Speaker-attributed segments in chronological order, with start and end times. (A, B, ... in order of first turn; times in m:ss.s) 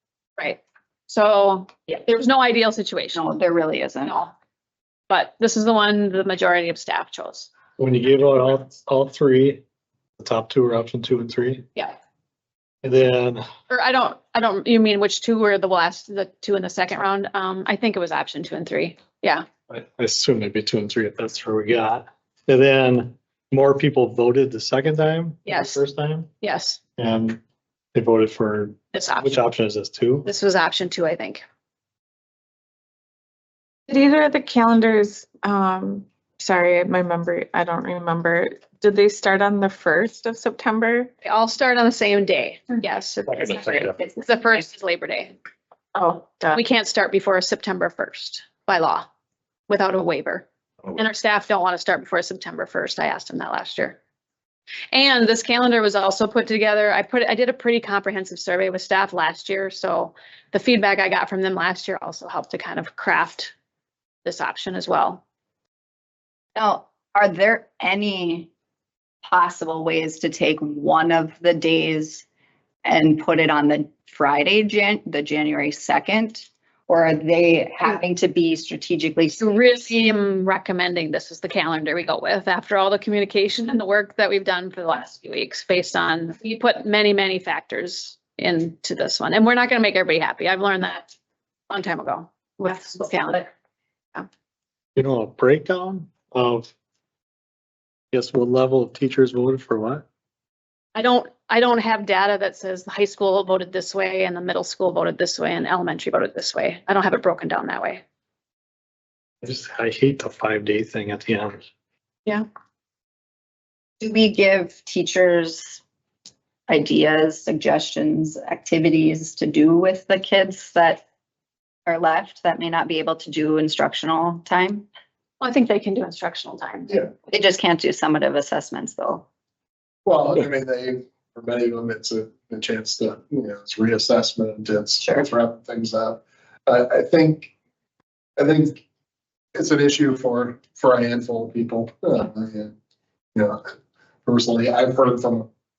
0:00.4-0:03.2 A
0:03.2-0:04.1 B
0:04.0-0:04.3 A
0:05.1-0:07.5 A
0:07.8-0:09.6 C
0:10.2-0:11.6 C
0:12.8-0:13.4 C
0:13.7-0:19.4 A
0:19.7-0:26.3 C
0:25.4-0:25.8 A
0:26.4-0:26.8 A
0:27.0-0:27.4 C
0:27.9-0:30.2 C
0:28.9-0:29.3 A
0:30.2-0:31.4 A
0:33.9-0:41.1 D
0:41.2-0:45.3 A
0:45.9-0:46.6 D
0:46.5-0:49.0 A
0:49.7-0:54.0 A
0:54.9-1:03.5 A
1:04.2-1:05.2 A
1:06.6-1:08.5 B
1:09.2-1:12.2 B
1:12.8-1:19.7 B
1:19.4-1:31.1 A
1:31.7-1:33.5 A
1:35.0-1:36.7 C
1:38.1-1:40.0 C
1:40.9-1:48.0 A
1:49.4-1:51.7 C
1:54.0-1:55.8 B
1:56.7-2:01.0 B
2:01.8-2:04.9 B
2:05.4-2:07.1 A
2:07.3-2:09.2 B
2:10.0-2:17.5 E
2:18.4-2:18.8 E
2:19.5-2:22.7 E
2:23.3-2:23.6 E
2:24.2-2:25.5 E